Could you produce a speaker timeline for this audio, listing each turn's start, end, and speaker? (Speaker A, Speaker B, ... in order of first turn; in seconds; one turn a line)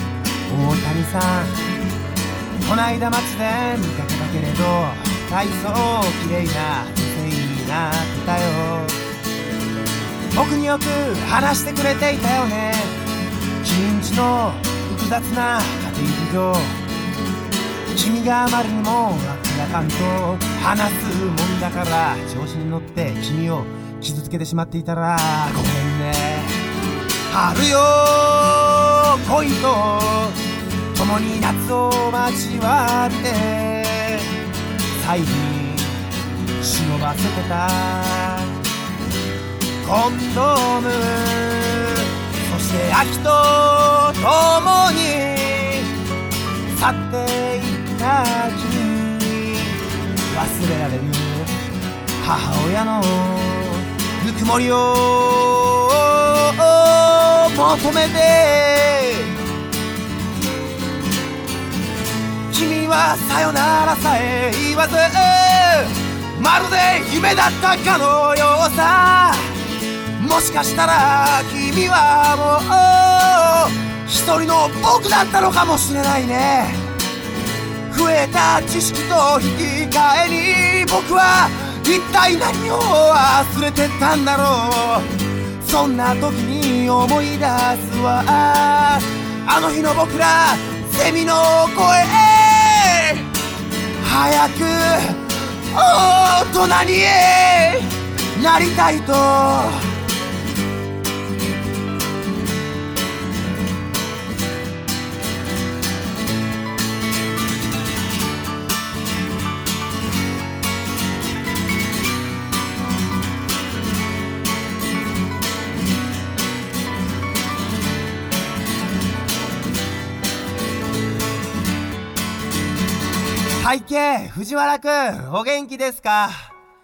Speaker A: 0.5-1.6
Speaker A: 2.6-9.0
Speaker A: 10.3-12.9
Speaker A: 13.6-16.8
Speaker A: 17.9-26.6
Speaker A: 27.3-30.4
Speaker A: 30.9-34.3
Speaker A: 34.9-36.0
Speaker A: 36.6-38.5
Speaker A: 39.8-45.9
Speaker A: 46.7-49.8
Speaker A: 50.3-51.6
Speaker A: 52.2-59.3
Speaker A: 62.5-69.6
Speaker A: 70.2-76.8
Speaker A: 77.9-85.1
Speaker A: 85.6-93.3
Speaker A: 94.0-99.9
Speaker A: 123.6-126.5